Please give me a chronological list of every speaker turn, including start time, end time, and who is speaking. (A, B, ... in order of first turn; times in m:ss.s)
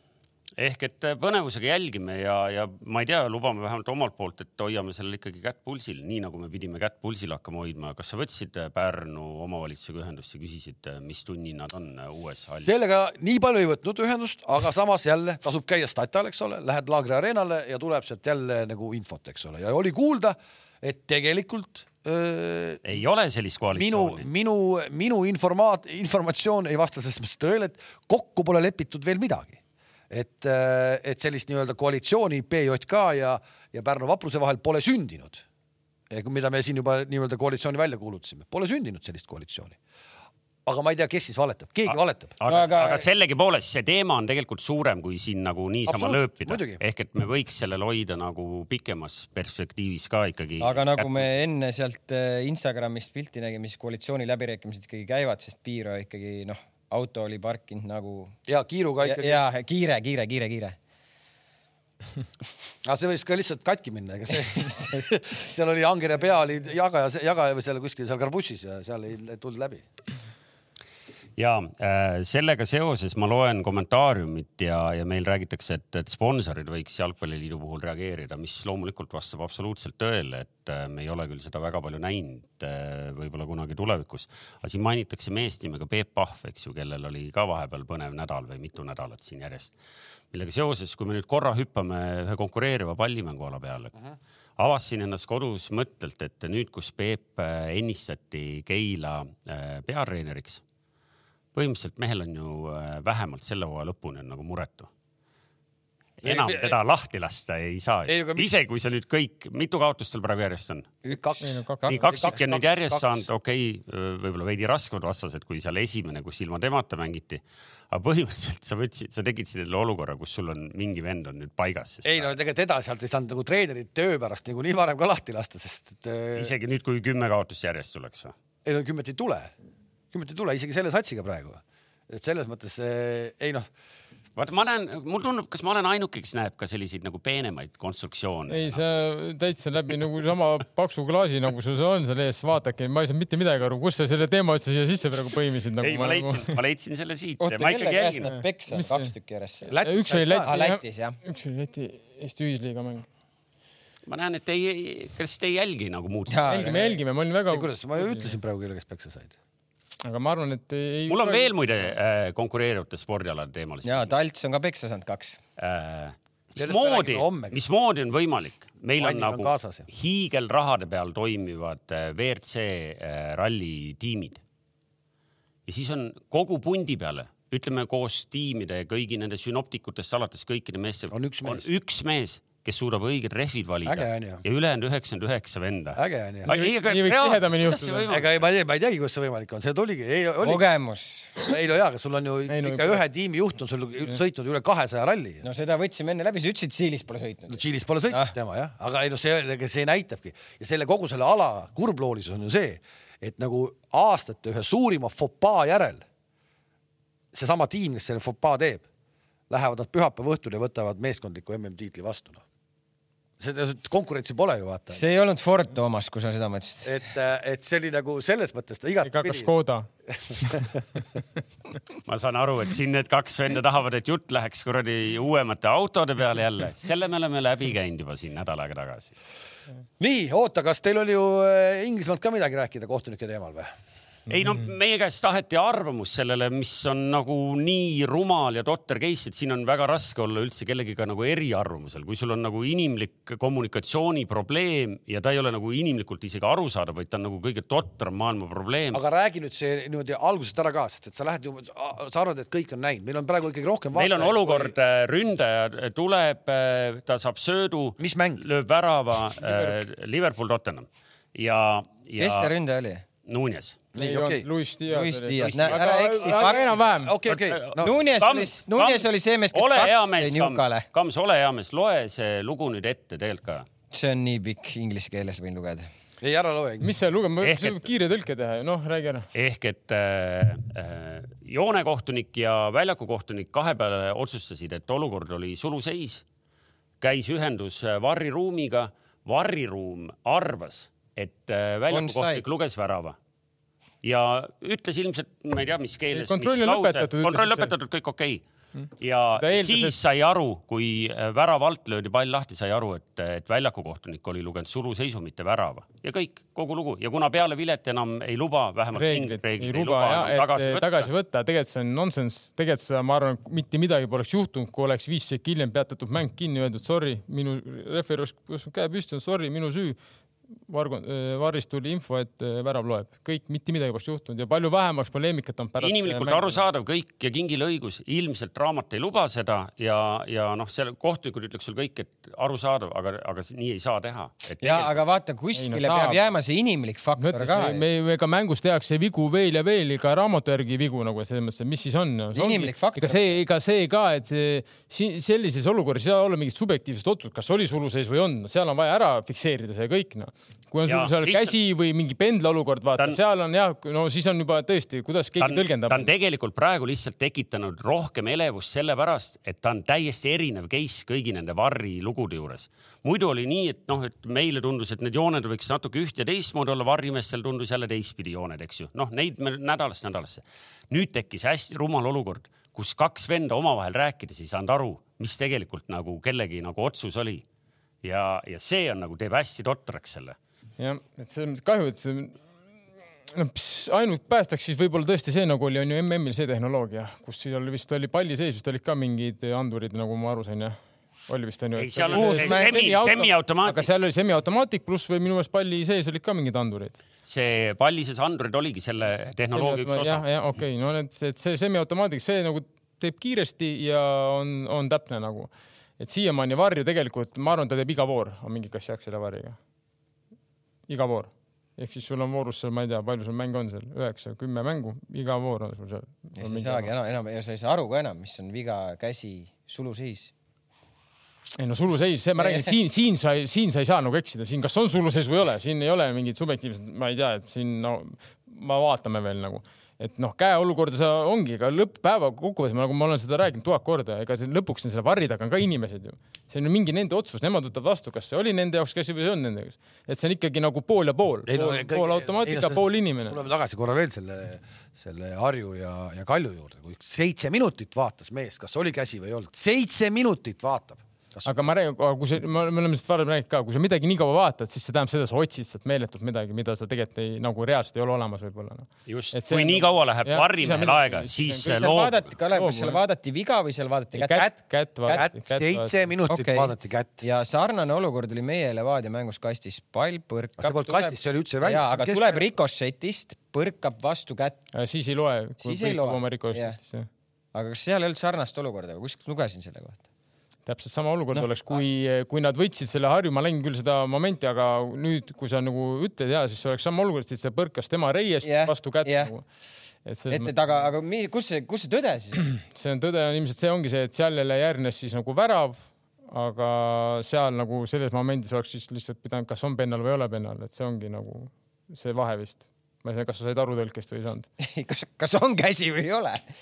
0:00.6-0:12.7 A
0:12.6-0:22.8 B
0:22.8-0:24.2 A
0:23.7-0:35.4 B
0:36.1-0:39.8 B
0:40.6-0:42.3 B
0:41.9-0:51.3 A
0:42.4-0:43.0 C
0:45.9-0:46.8 B
0:50.6-0:58.3 C
0:58.5-0:59.4 B
0:59.0-1:00.8 C
1:02.8-1:09.8 B
1:04.7-1:05.0 C
1:11.4-1:29.7 A
1:30.3-1:34.0 A
1:34.6-1:40.6 A
1:41.5-1:44.9 A
1:46.2-1:50.9 A
1:46.2-1:46.8 B
1:48.1-1:48.5 B
1:51.0-1:52.4 C
1:51.1-1:53.2 B
1:51.4-1:51.8 D
1:51.9-2:02.3 A
2:02.0-2:06.5 B
2:06.4-2:08.3 A
2:08.6-2:09.5 B
2:10.1-2:13.7 B
2:14.4-2:18.8 A
2:18.5-2:26.5 D
2:25.8-2:28.3 A
2:27.4-2:29.7 C
2:28.7-2:29.1 D
2:29.7-2:30.6 B
2:29.8-2:33.1 D
2:30.4-2:31.2 C
2:34.1-2:36.8 A
2:36.3-2:36.9 C
2:36.5-2:38.3 D
2:37.5-2:39.3 B
2:40.0-2:41.5 D
2:41.1-2:44.1 A
2:43.8-2:45.4 C
2:45.6-2:54.4 A
2:46.6-2:47.6 B
2:49.0-2:49.9 B
2:55.7-3:08.4 A
3:01.1-3:01.6 B
3:03.8-3:04.4 B
3:05.9-3:06.5 B
3:06.5-3:08.0 D
3:08.1-3:10.6 B
3:10.4-3:11.4 C
3:11.4-3:15.4 B
3:12.5-3:13.0 D
3:15.4-3:18.3 C
3:17.5-3:26.0 B
3:27.3-3:28.8 B
3:29.5-3:32.4 B
3:33.4-3:35.0 B
3:34.9-3:37.0 C
3:36.8-3:39.5 B
3:39.0-3:39.9 D
3:40.1-3:40.8 B
3:42.0-3:49.1 A
3:50.0-3:53.7 B
3:54.3-4:09.0 A
4:08.9-4:14.7 B
4:13.9-4:22.5 A
4:18.0-4:18.4 B
4:19.4-4:19.8 D
4:22.2-4:23.0 C
4:23.2-4:23.8 A
4:23.9-4:24.5 B
4:24.0-4:27.2 D
4:24.9-4:26.7 C
4:26.2-4:27.9 B
4:27.2-4:33.6 A
4:27.8-4:30.8 C
4:33.9-4:35.9 C
4:36.2-4:36.9 B
4:36.8-4:39.3 D
4:37.4-4:37.9 A
4:39.3-4:46.2 A
4:47.0-4:53.2 A
4:51.9-4:52.4 C
4:54.0-4:58.4 A
4:56.1-4:57.7 D
4:59.0-5:11.1 A
4:59.4-5:00.0 D
5:08.9-5:20.0 D
5:20.7-5:26.6 D
5:25.8-5:35.0 A
5:34.6-5:37.8 C
5:35.5-5:36.2 D
5:37.2-5:56.1 D
5:42.3-5:43.3 C
5:50.8-5:51.6 A
5:55.4-6:17.4 A
6:18.0-6:20.4 A
6:20.8-6:22.4 D
6:23.3-6:30.8 D
6:31.3-6:37.0 D
6:31.8-6:33.9 A
6:32.1-6:32.9 C
6:37.2-6:40.2 A
6:39.5-6:49.6 D
6:50.9-6:56.9 D
6:56.4-7:00.3 C
7:01.6-7:23.4 D
7:02.4-7:02.8 C
7:21.5-7:31.7 B
7:31.4-7:41.9 D
7:39.1-7:42.3 A
7:41.6-7:44.5 C
7:42.5-7:43.0 D
7:44.1-7:45.9 D
7:45.0-7:47.2 B
7:46.3-7:54.6 C
7:50.6-7:52.5 B
7:54.7-7:57.1 D
7:55.6-7:56.8 C
7:57.5-8:00.0 C
8:00.7-8:09.4 D
8:01.3-8:01.8 C
8:08.4-8:09.3 C
8:10.0-8:10.5 D
8:10.3-8:12.4 C
8:12.4-8:24.5 D
8:24.6-8:26.4 C